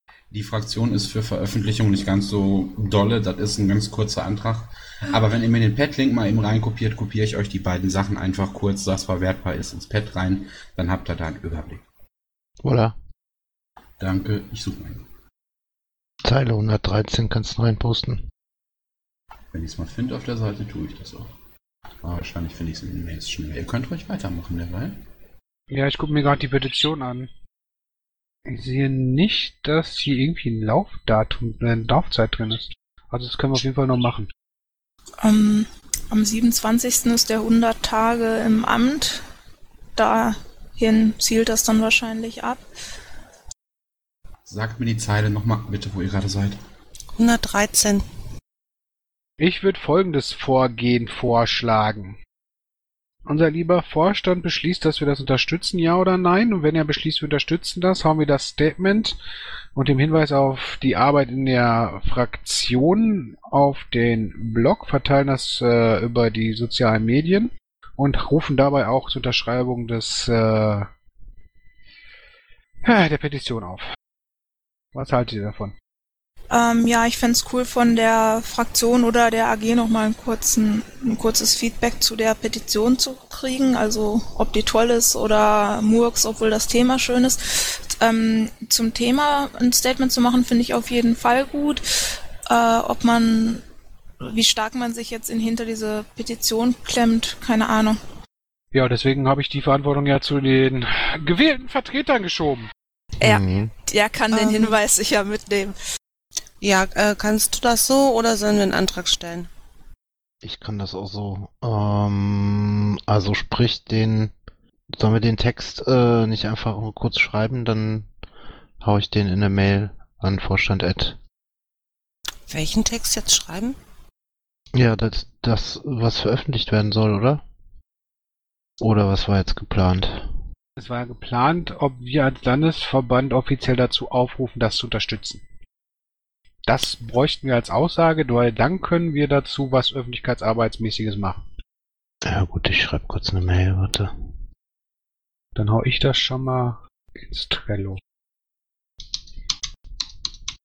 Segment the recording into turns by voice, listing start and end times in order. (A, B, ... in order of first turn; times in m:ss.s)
0:00.3-0:11.8 A
0:12.6-0:13.0 B
0:14.0-0:15.1 A
0:16.2-0:18.2 B
0:19.5-0:21.3 A
0:22.0-0:25.0 A
0:25.7-0:27.3 C
0:28.5-0:34.3 C
0:35.2-0:39.2 D
0:40.0-0:42.6 D
0:44.5-0:46.6 A
0:47.2-0:48.0 E
0:49.4-0:52.2 C
0:53.3-0:59.2 C
0:59.8-1:10.9 C
1:12.8-1:13.8 C
1:14.9-1:15.7 C
1:16.5-1:31.8 D
1:32.5-1:33.6 D
1:34.2-1:38.0 D
1:38.7-1:42.7 C
1:43.2-1:45.8 D
1:43.2-1:43.7 B
1:44.3-1:44.8 E
1:46.6-1:49.5 E
1:50.4-1:54.3 B
1:54.9-1:58.1 B
1:58.8-2:01.2 B
2:02.5-2:03.8 E
2:04.7-2:07.4 B
2:08.8-2:10.3 B
2:10.8-2:15.4 C
2:16.7-2:21.4 C
2:22.2-2:24.1 B
2:25.6-2:28.0 C